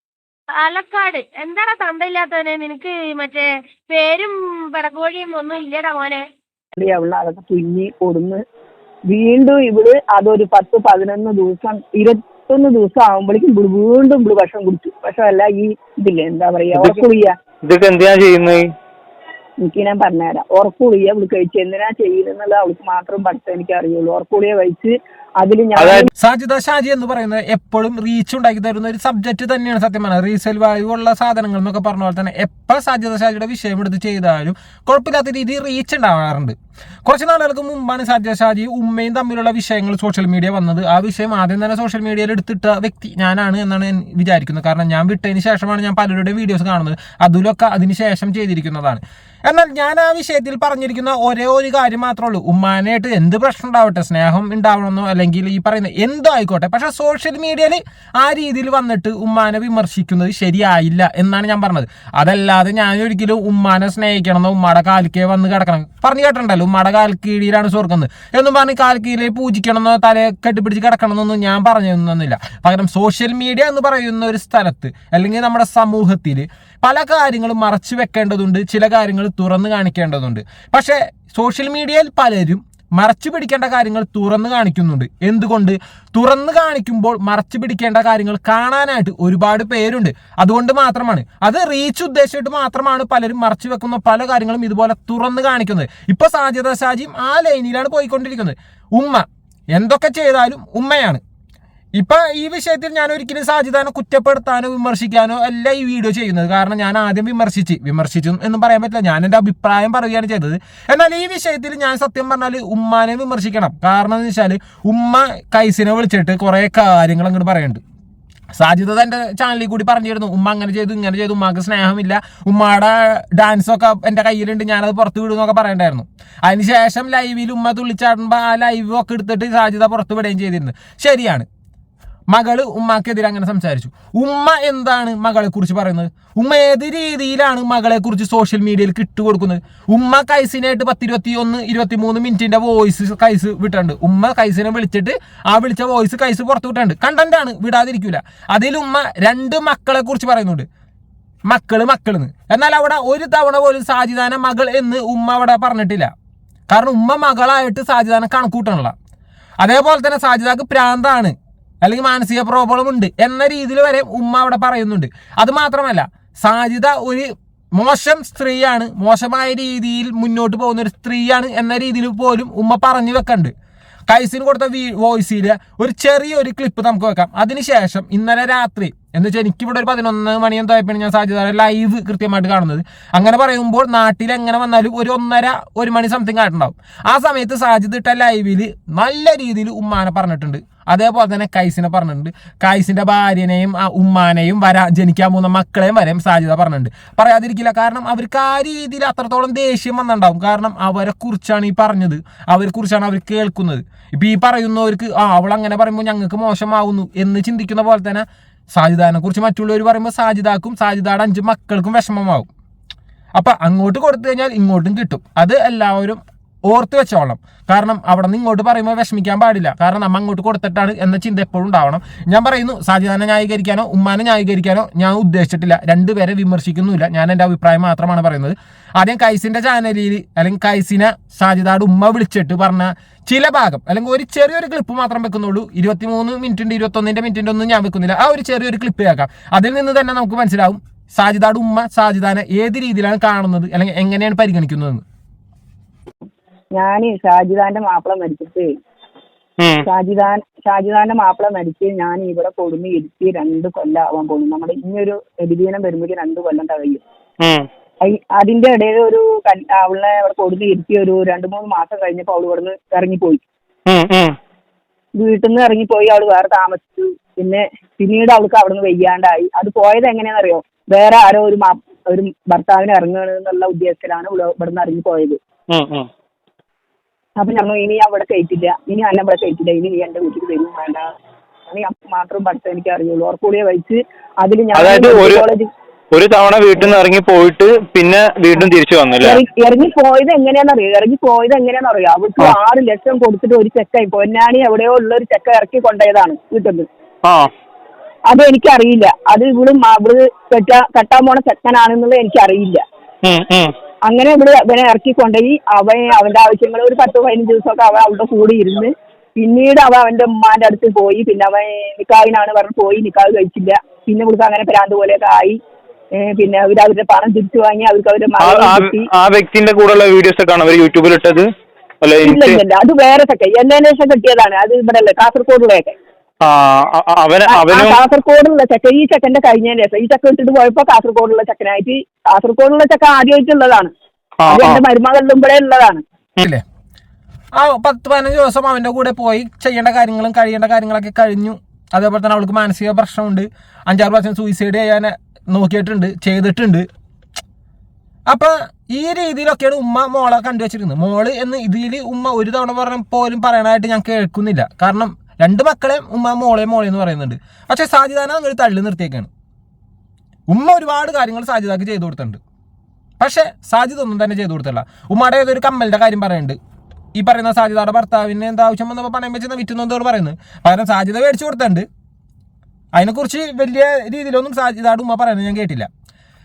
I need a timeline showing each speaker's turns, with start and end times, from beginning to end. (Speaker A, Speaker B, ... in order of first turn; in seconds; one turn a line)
Speaker A: 0.6-6.2
Speaker B: 6.8-8.4
Speaker B: 9.1-17.3
Speaker C: 16.7-17.1
Speaker C: 17.6-18.7
Speaker B: 19.6-26.1
Speaker C: 25.8-26.1
Speaker D: 26.2-36.5
Speaker D: 37.0-101.2
Speaker D: 102.0-117.8
Speaker D: 118.5-131.5
Speaker D: 132.3-150.7
Speaker D: 151.5-156.1
Speaker D: 156.7-158.9
Speaker D: 159.6-173.5
Speaker D: 174.1-212.5
Speaker D: 213.4-245.0
Speaker B: 246.7-248.7
Speaker C: 249.6-249.8
Speaker B: 249.8-257.0
Speaker C: 257.4-257.7
Speaker B: 258.0-263.4
Speaker C: 263.9-264.3
Speaker B: 265.2-275.4
Speaker C: 275.7-276.1
Speaker B: 277.4-281.1
Speaker B: 281.7-285.7
Speaker C: 284.8-285.4
Speaker C: 286.1-289.4
Speaker B: 289.2-296.9
Speaker B: 298.3-302.8
Speaker C: 303.2-303.7
Speaker B: 304.1-315.6
Speaker B: 316.1-319.1
Speaker C: 318.4-321.5
Speaker C: 322.0-322.6
Speaker B: 322.2-325.9
Speaker C: 326.4-328.0
Speaker B: 327.5-333.9
Speaker C: 334.4-334.8
Speaker B: 334.5-336.0
Speaker D: 337.6-346.9
Speaker D: 348.3-359.3
Speaker D: 360.5-362.4
Speaker D: 363.2-366.6
Speaker D: 367.2-371.9
Speaker D: 372.9-375.9